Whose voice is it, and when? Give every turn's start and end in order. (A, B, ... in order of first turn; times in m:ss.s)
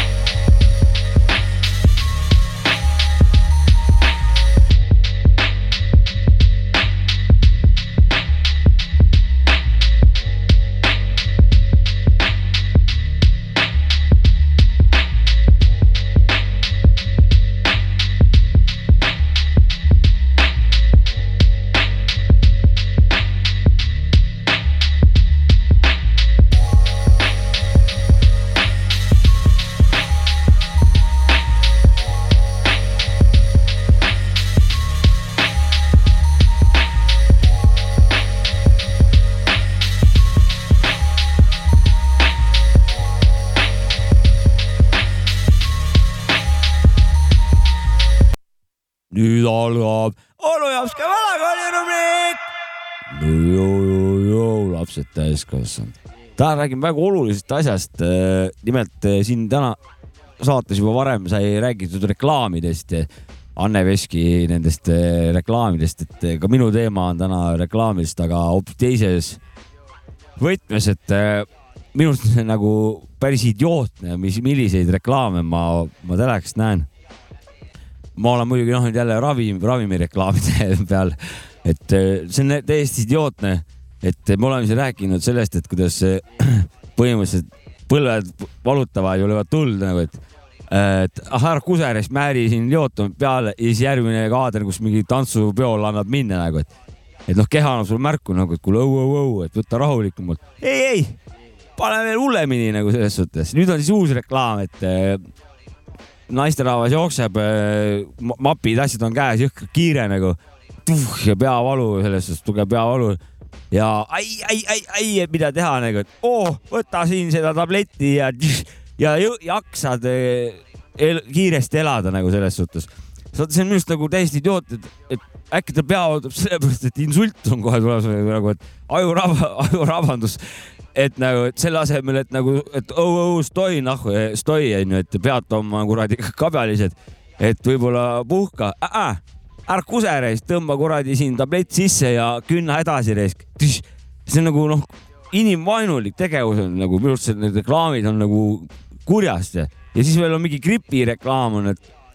0:49.1-0:52.4 A
0:53.1-0:59.8 A
1:00.4-1:09.4 A
1:10.4-1:16.9 A
1:18.2-1:36.7 A
1:37.3-1:41.2 A
1:41.8-1:45.2 A
1:46.3-1:53.2 A
1:53.7-2:10.4 A
2:10.9-2:31.8 A